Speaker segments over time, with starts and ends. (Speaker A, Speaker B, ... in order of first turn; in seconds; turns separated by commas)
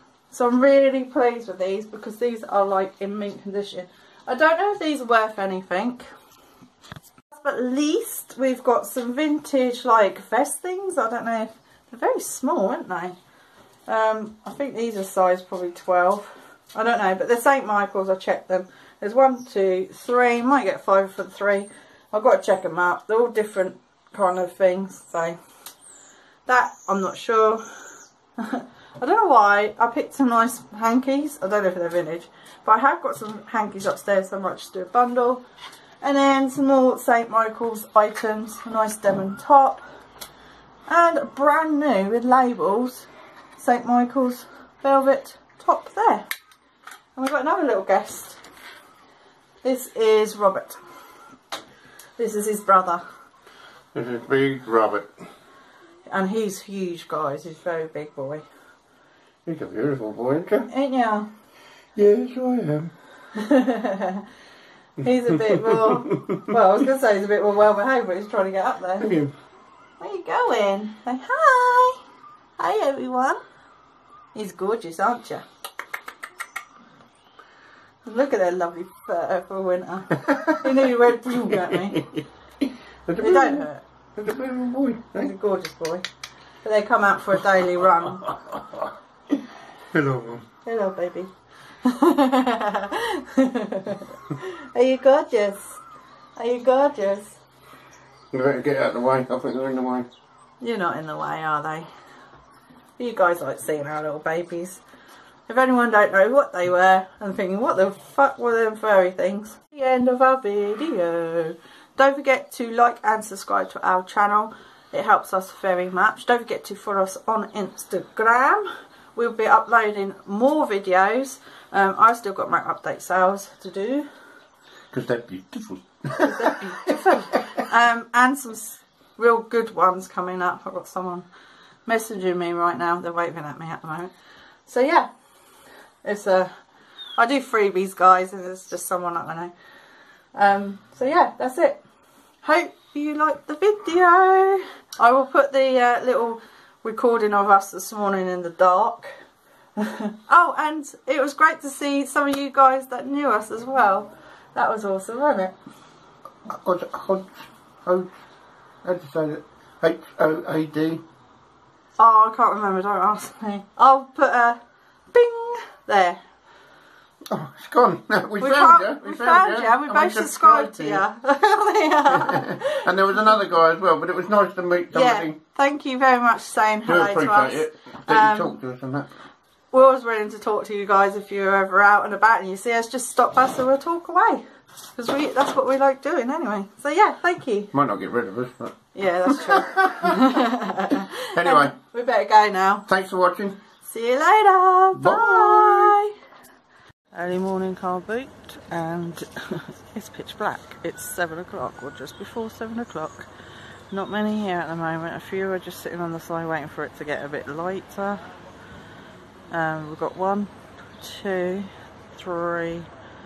Speaker A: 0.3-6.1, Speaker A: 7.3-13.2, Speaker A: 13.9-25.4, Speaker A: 26.5-27.6, Speaker A: 28.4-35.4, Speaker A: 36.0-39.8, Speaker A: 40.9-46.3, Speaker A: 47.2-48.4, Speaker A: 49.6-50.8, Speaker A: 52.2-53.0, Speaker B: 53.9-55.1, Speaker A: 56.1-58.4, Speaker B: 59.5-60.7, Speaker A: 60.7-61.3, Speaker B: 62.0-62.9, Speaker A: 63.3-64.3, Speaker A: 65.0-69.1, Speaker B: 65.3-66.5, Speaker B: 69.0-69.3, Speaker A: 70.0-72.0, Speaker A: 72.6-73.4, Speaker A: 74.3-75.5, Speaker A: 78.0-82.1, Speaker B: 80.2-80.7, Speaker B: 81.5-82.2, Speaker B: 83.1-85.3, Speaker A: 83.2-83.8, Speaker A: 85.2-86.0, Speaker A: 86.6-88.3, Speaker B: 88.3-88.8, Speaker B: 89.9-90.4, Speaker A: 90.7-91.3, Speaker A: 91.8-95.8, Speaker A: 96.4-97.4, Speaker B: 98.3-100.1, Speaker A: 100.6-101.9, Speaker A: 103.0-104.8, Speaker A: 105.5-124.1, Speaker B: 124.9-127.6, Speaker A: 126.2-131.3, Speaker A: 131.9-134.1, Speaker A: 134.7-135.1, Speaker A: 136.0-136.5, Speaker A: 137.2-139.5, Speaker A: 140.3-141.8, Speaker A: 142.4-149.1, Speaker A: 149.8-155.5, Speaker B: 156.5-158.1, Speaker B: 158.8-161.0, Speaker A: 162.0-164.6, Speaker A: 165.1-166.2, Speaker B: 167.3-171.0, Speaker A: 168.4-173.4, Speaker B: 172.1-175.4, Speaker A: 174.9-178.6, Speaker B: 176.8-179.1, Speaker A: 179.7-184.4, Speaker A: 185.0-187.7, Speaker B: 187.7-188.8, Speaker A: 188.9-192.9, Speaker B: 189.3-190.3, Speaker B: 191.3-191.7, Speaker B: 192.9-193.6, Speaker A: 193.9-196.1, Speaker B: 194.9-196.0, Speaker A: 197.1-203.3, Speaker A: 203.9-208.2, Speaker A: 209.5-212.9